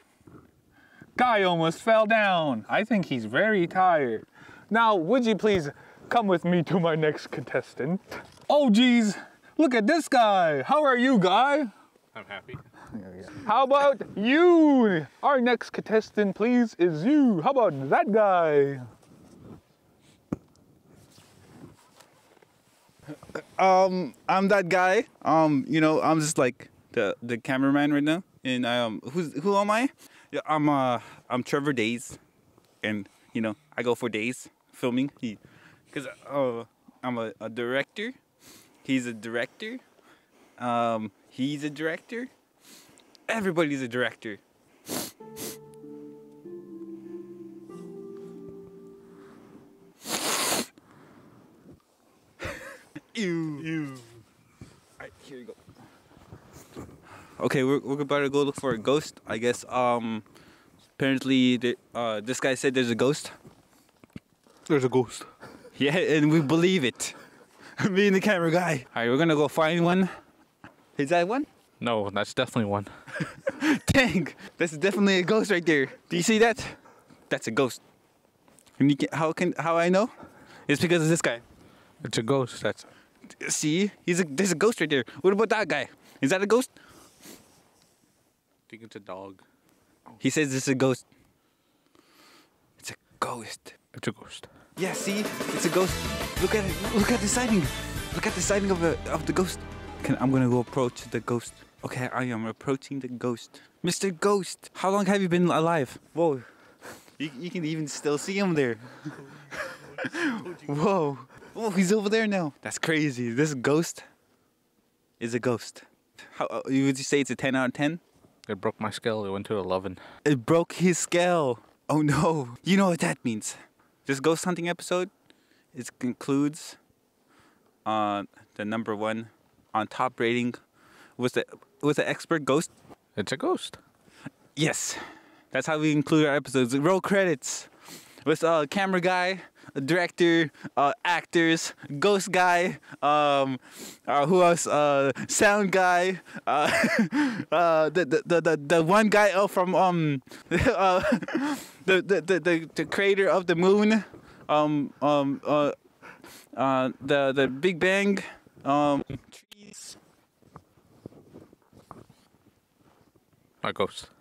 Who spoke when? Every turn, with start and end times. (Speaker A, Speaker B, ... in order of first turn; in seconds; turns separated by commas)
Speaker A: 1.1-11.7, Speaker B: 12.1-12.6, Speaker A: 12.9-18.9, Speaker C: 23.1-32.2, Speaker C: 32.8-35.4, Speaker C: 35.9-38.1, Speaker C: 38.8-39.8, Speaker C: 40.6-42.3, Speaker C: 43.3-44.4, Speaker C: 53.1-53.7, Speaker C: 55.0-55.6, Speaker C: 57.4-60.2, Speaker C: 61.0-63.3, Speaker B: 64.7-65.3, Speaker C: 65.7-67.2, Speaker C: 67.8-70.1, Speaker C: 71.0-71.5, Speaker B: 71.8-72.9, Speaker C: 73.2-76.8, Speaker C: 77.3-77.8, Speaker C: 78.8-80.1, Speaker C: 80.7-81.4, Speaker B: 82.0-82.9, Speaker C: 83.4-86.7, Speaker B: 88.7-89.4, Speaker C: 90.2-91.0, Speaker C: 92.8-93.8, Speaker B: 93.9-94.5, Speaker C: 94.8-106.5, Speaker C: 107.2-114.0, Speaker C: 115.2-118.0, Speaker B: 118.5-120.0, Speaker C: 120.2-125.1, Speaker C: 125.7-126.8, Speaker C: 127.8-130.6, Speaker C: 131.2-132.7, Speaker B: 133.2-133.8, Speaker C: 134.6-137.7, Speaker C: 138.2-155.7, Speaker C: 156.5-160.0, Speaker B: 163.6-164.1